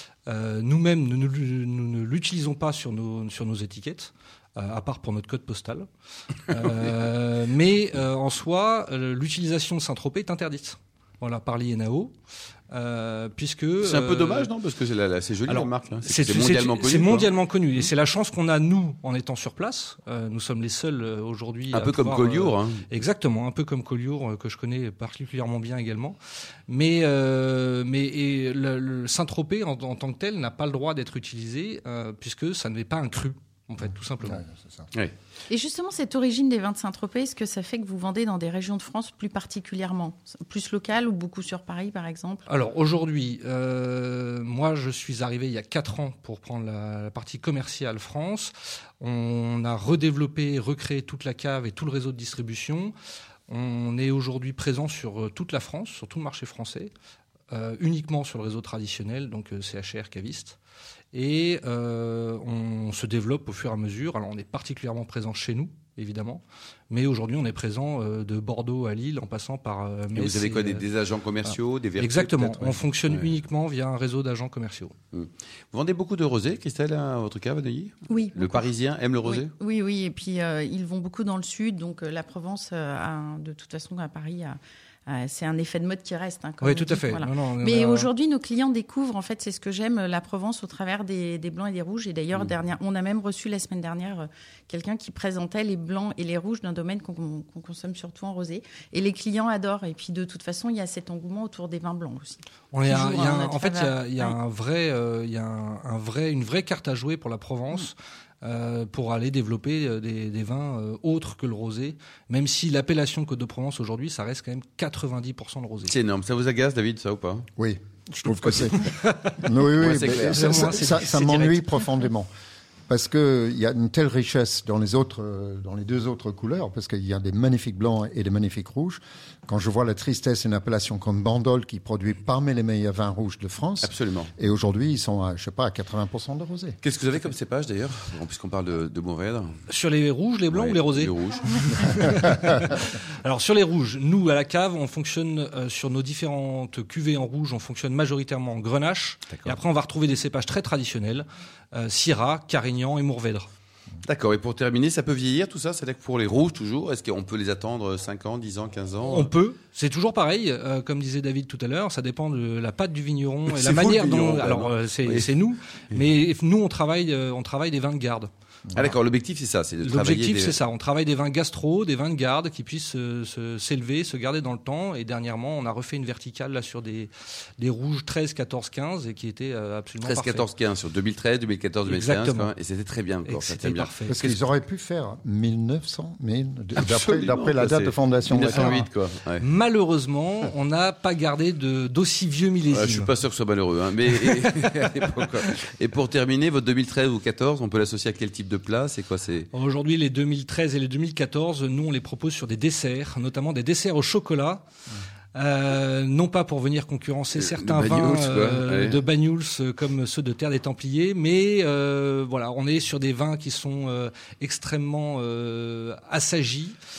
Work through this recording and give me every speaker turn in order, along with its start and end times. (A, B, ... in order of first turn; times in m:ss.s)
0:00.3-0:05.8 A
0:06.5-0:12.1 A
0:12.7-0:14.5 A
0:13.8-0:17.3 B
0:15.4-0:26.2 A
0:21.7-0:22.8 B
0:26.7-0:34.4 A
0:34.2-0:34.9 C
0:35.5-0:42.4 D
0:42.5-0:52.9 A
0:53.5-0:56.9 A
0:57.5-1:00.6 A
1:01.1-1:10.8 A
1:10.1-1:13.2 B
1:11.4-1:14.9 A
1:15.1-1:19.5 B
1:18.1-1:18.7 D
1:19.2-1:24.6 D
1:25.1-1:44.3 D
1:26.6-1:28.1 A
1:42.7-1:55.9 A
1:55.9-1:57.4 B
1:57.6-2:02.3 C
1:59.0-1:59.3 A
1:59.8-2:01.0 B
2:00.3-2:01.8 A
2:02.9-2:16.8 C
2:13.8-2:14.3 B
2:16.8-2:19.5 B
2:19.7-2:33.5 A
2:20.5-2:21.6 B
2:34.0-2:39.3 B
2:39.0-2:48.3 A
2:43.5-2:45.3 B
2:48.7-2:50.6 B
2:49.8-3:00.5 A
3:00.0-3:04.4 B
3:01.8-3:02.5 A
3:03.2-3:04.2 A
3:04.1-3:08.8 C
3:06.8-3:09.4 B
3:08.4-3:08.9 A
3:09.4-3:13.1 A
3:12.7-3:19.5 B
3:14.2-3:14.6 A
3:19.5-3:24.6 A
3:25.3-3:36.8 A
3:27.3-3:29.0 B